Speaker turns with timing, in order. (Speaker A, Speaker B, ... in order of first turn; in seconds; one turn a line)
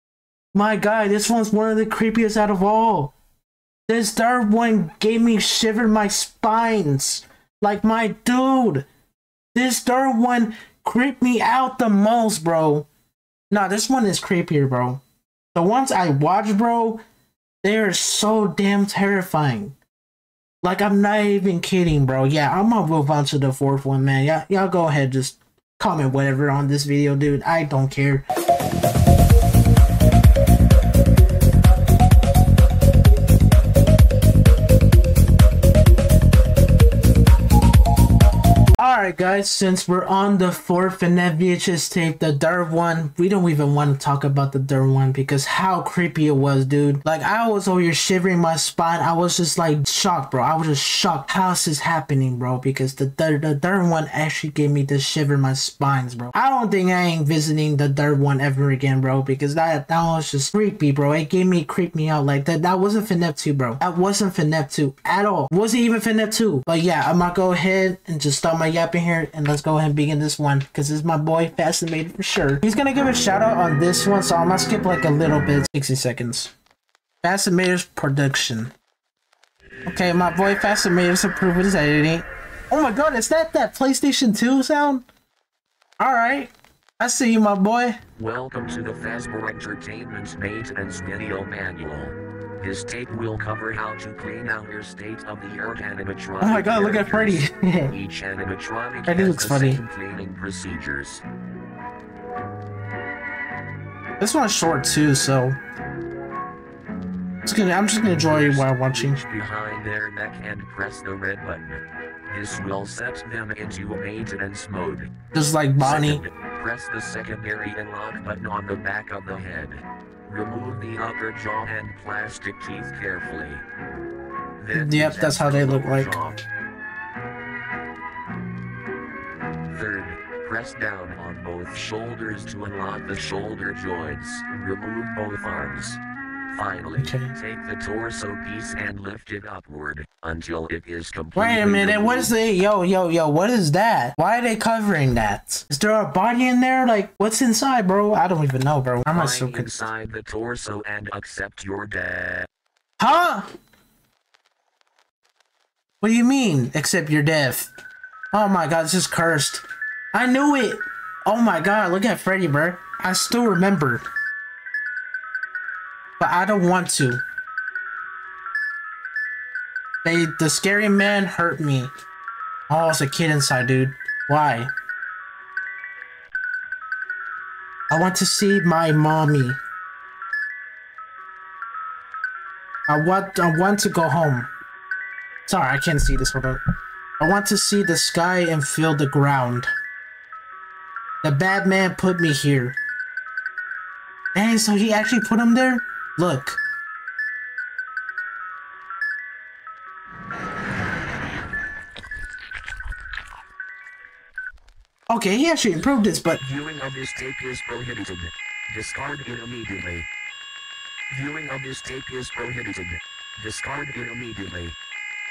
Speaker A: 0.5-3.1
Speaker A: 3.9-8.9
Speaker A: 9.5-12.9
Speaker A: 13.5-15.0
Speaker A: 15.5-17.0
Speaker A: 17.6-19.8
Speaker A: 20.6-28.2
Speaker A: 38.8-76.5
Speaker A: 77.2-78.7
Speaker A: 79.9-85.1
Speaker A: 86.0-88.0
Speaker B: 88.2-101.2
Speaker A: 96.4-98.0
Speaker A: 99.1-99.8
Speaker A: 104.2-105.6
Speaker A: 107.5-109.2
Speaker B: 108.0-115.1
Speaker A: 115.3-116.2
Speaker B: 115.8-123.6
Speaker B: 124.6-126.4
Speaker A: 124.7-126.2
Speaker B: 129.7-136.0
Speaker B: 136.5-142.3
Speaker A: 137.0-137.3
Speaker A: 141.3-149.7
Speaker B: 149.1-152.5
Speaker A: 153.0-153.5
Speaker A: 156.0-157.7
Speaker A: 158.3-164.0
Speaker A: 166.2-167.2
Speaker A: 170.0-171.9
Speaker A: 172.7-174.7
Speaker A: 177.9-179.6
Speaker A: 182.9-184.5
Speaker A: 185.5-186.6
Speaker A: 187.2-189.7
Speaker A: 191.2-192.8
Speaker A: 194.3-196.6
Speaker A: 205.1-206.4
Speaker B: 206.4-210.1
Speaker B: 211.1-214.8